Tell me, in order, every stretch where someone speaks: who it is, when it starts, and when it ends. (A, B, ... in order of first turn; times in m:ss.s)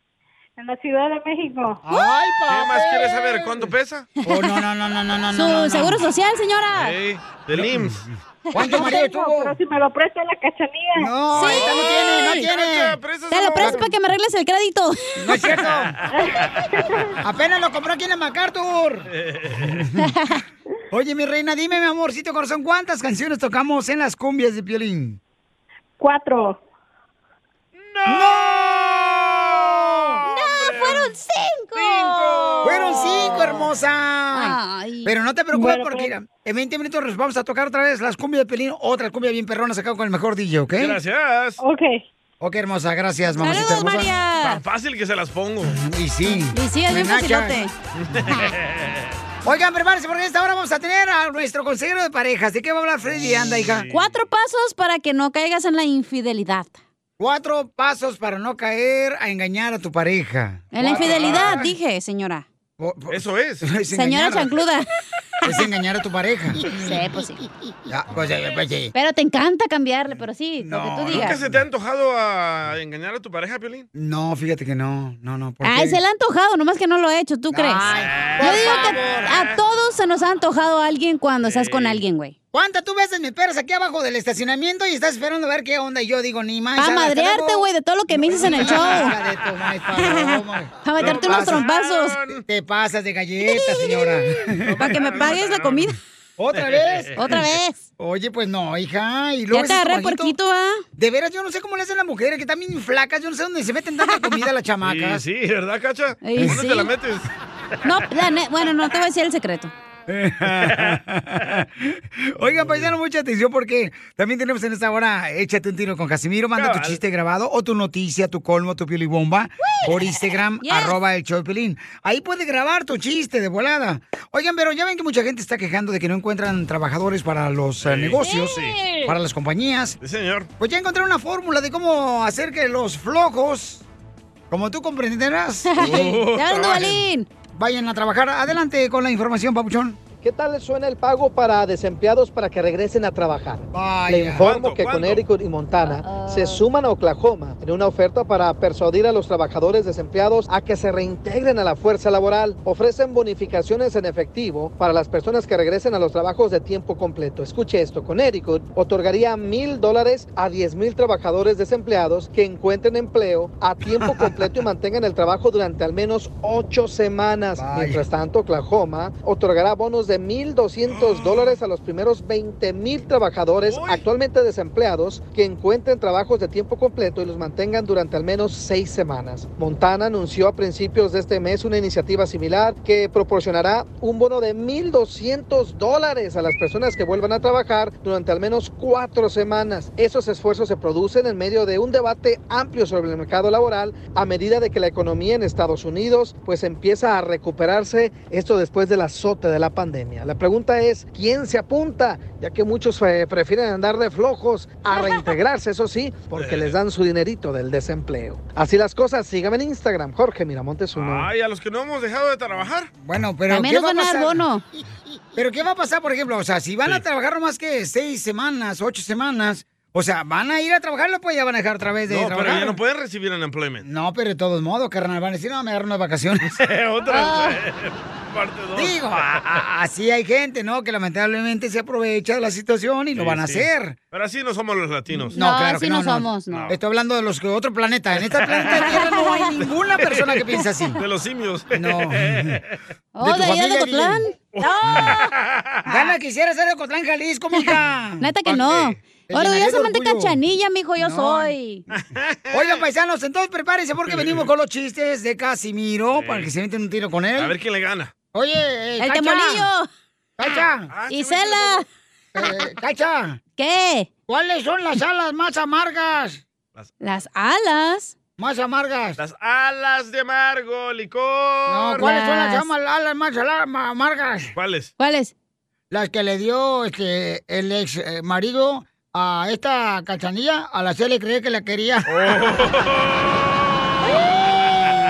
0:00.6-0:01.8 A
0:01.8-0:03.7 B
0:02.5-0:04.1 C
0:04.2-0:06.0 B
0:04.3-0:04.5 D
0:05.3-0:07.0 D
0:06.7-0:08.1 C
0:07.6-0:07.9 B
0:08.5-0:09.6 B
0:08.6-0:11.1 A
0:11.0-0:13.0 B
0:11.3-0:12.5 D
0:11.4-0:13.9 C
0:13.3-0:15.4 D
0:13.6-0:13.9 B
0:15.2-0:16.0 B
0:17.2-0:20.1 B
0:19.2-0:19.7 C
0:20.1-0:20.4 D
0:20.9-0:25.2 B
0:26.0-0:26.6 A
0:27.8-0:31.2 C
0:28.1-0:30.2 B
0:30.3-0:33.6 D
0:31.8-0:33.7 C
0:32.6-0:41.0 B
0:34.3-0:35.1 D
0:35.5-0:36.1 A
0:40.8-0:41.6 C
0:41.6-0:42.0 A
0:42.4-0:44.1 B
0:43.4-0:44.6 D
0:44.4-0:45.8 C
0:45.6-0:47.6 B
0:46.5-0:47.7 D
0:48.0-0:49.1 C
0:49.4-0:53.9 B
0:53.5-0:54.1 C
0:53.9-0:56.8 D
0:57.2-1:01.7 B
1:00.7-1:02.5 D
1:00.8-1:01.6 C
1:02.8-1:04.6 B
1:03.1-1:03.7 C
1:03.9-1:04.9 D
1:05.4-1:07.3 B
1:06.7-1:07.4 D
1:07.9-1:08.9 B
1:09.0-1:11.4 D
1:10.6-1:11.6 B
1:11.1-1:13.9 C
1:14.0-1:16.0 B
1:15.6-1:17.9 D
1:17.5-1:19.3 B
1:17.9-1:19.6 C
1:18.4-1:22.3 D
1:21.4-1:22.0 C
1:22.5-1:31.6 B
1:26.8-1:29.2 D
1:28.3-1:29.1 C
1:30.0-1:32.2 D
1:31.0-1:32.4 C
1:32.5-1:35.2 B
1:33.4-1:36.0 D
1:34.6-1:35.9 C
1:36.4-1:40.4 B
1:36.5-1:37.5 C
1:37.2-1:37.8 D
1:39.5-1:40.8 D
1:41.0-1:45.2 B
1:44.1-1:44.4 D
1:44.8-1:47.3 C
1:46.2-1:46.9 D
1:47.8-1:49.7 D
1:50.1-2:10.0 B
1:50.5-1:51.0 C
1:52.5-1:52.9 C
1:56.6-1:57.0 C
1:59.6-2:00.0 D
2:00.6-2:01.0 D
2:07.8-2:08.8 C
2:08.2-2:09.2 D
2:10.0-2:10.5 C
2:10.6-2:13.8 B
2:14.5-2:16.2 B
2:15.7-2:17.3 D
2:15.8-2:17.0 C
2:17.6-2:20.0 B
2:20.2-3:31.3 E
2:23.7-2:24.5 B
2:24.4-2:25.2 C
2:25.9-2:26.6 D
2:44.0-2:44.3 B
2:47.6-2:48.0 B
2:50.9-2:51.6 C
2:53.6-2:54.0 C
3:24.9-3:25.3 D
3:26.3-3:26.8 C
3:31.0-3:32.9 C
3:33.0-3:34.4 B
3:33.5-3:34.6 D
3:35.3-3:42.8 B
3:42.1-3:43.8 C
3:43.8-3:46.6 B
3:46.5-3:49.6 C
3:47.1-3:47.6 D
3:48.8-3:54.0 B
3:53.2-3:55.4 C
3:55.3-3:56.7 D
3:55.3-4:01.0 B
3:56.5-3:56.8 C
3:58.2-3:59.0 C
3:58.7-3:59.5 D
4:00.0-4:00.4 C
4:01.0-4:02.6 C
4:01.7-4:02.6 B
4:03.2-4:05.3 D
4:03.2-4:04.3 B
4:04.5-4:05.9 C
4:04.9-4:05.2 B
4:05.9-4:08.7 B
4:07.5-4:11.8 D
4:08.6-4:09.0 C
4:09.3-4:10.4 B
4:11.0-4:11.6 B
4:11.9-4:12.8 C
4:12.5-4:17.5 B
4:14.1-4:14.5 C
4:16.1-4:16.5 C
4:17.4-4:18.1 C
4:18.3-4:19.7 B
4:19.0-4:19.9 D
4:20.4-4:20.9 B
4:20.9-4:21.8 C
4:21.1-4:21.9 D
4:22.4-4:23.4 B
4:23.6-4:24.1 D
4:24.3-4:26.4 B
4:27.0-4:28.2 D
4:28.4-4:29.2 B
4:29.2-4:32.1 C
4:31.7-4:34.5 B
4:32.0-4:32.7 D
4:34.6-4:34.9 C
4:35.0-4:35.3 D
4:35.9-4:42.1 B
4:42.1-4:44.1 C
4:44.1-4:44.9 B